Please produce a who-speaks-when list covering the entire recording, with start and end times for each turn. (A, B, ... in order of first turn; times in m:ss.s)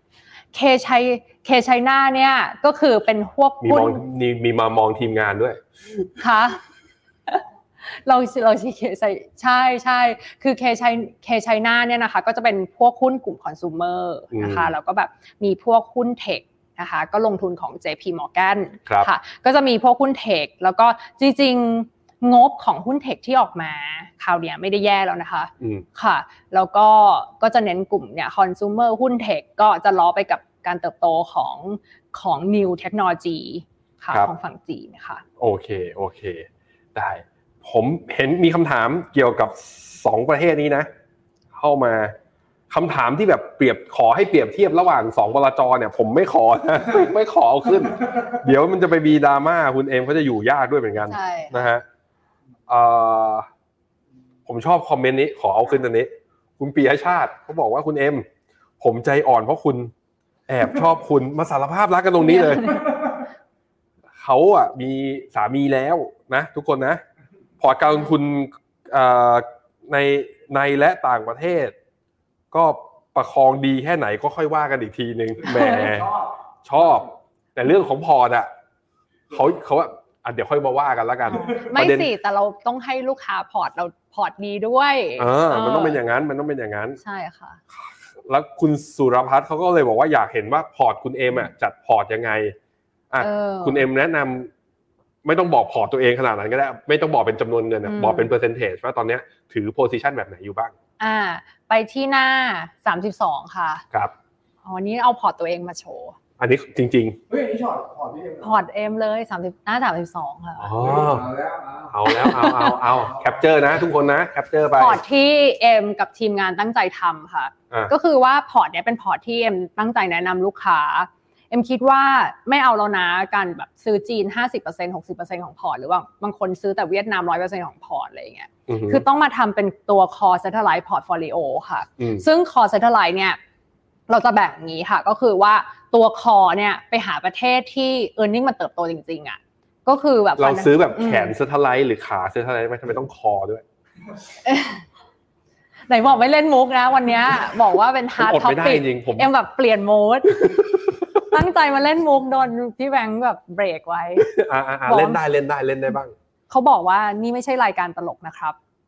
0:00.5-0:04.0 A
0:03.6-0:05.6 B
0:06.2-0:06.6 A
0:07.3-0:35.2 A
0:14.3-0:14.7 B
0:25.6-0:25.9 B
0:35.4-0:40.9 B
0:41.5-0:42.2 B
0:42.7-0:51.8 B
0:51.1-0:51.7 A
0:52.7-0:53.5 B
0:54.5-0:58.3 B
0:58.8-0:59.9 B
1:00.5-1:02.8 B
1:02.3-1:02.8 A
1:04.2-1:07.0 B
1:07.6-1:11.8 B
1:12.5-1:16.1 B
1:15.5-1:15.9 A
1:15.6-1:16.3 C
1:16.7-1:18.5 B
1:16.8-1:17.1 C
1:19.3-1:22.1 B
1:21.3-1:26.0 A
1:25.2-1:27.0 B
1:27.0-1:27.6 A
1:27.7-1:32.6 B
1:33.1-1:34.5 B
1:33.2-1:33.8 A
1:35.2-1:40.7 B
1:37.8-1:38.3 A
1:41.0-1:43.8 A
1:44.6-1:46.2 A
1:46.4-1:47.2 B
1:47.3-1:48.6 C
1:48.4-1:50.7 A
1:50.6-1:51.3 B
1:50.8-1:52.0 C
1:51.9-1:55.0 B
1:52.1-1:52.8 A
1:52.5-1:53.3 C
1:54.8-2:13.4 A
2:08.7-2:09.0 B
2:12.0-2:12.2 B
2:14.1-2:21.3 A
2:20.4-2:23.6 B
2:24.4-2:24.8 A
2:25.9-2:30.6 A
2:28.2-2:29.3 B
2:30.4-2:30.7 B
2:31.3-2:34.3 A
2:34.2-2:36.1 B
2:34.9-2:35.2 A
2:36.5-2:38.6 A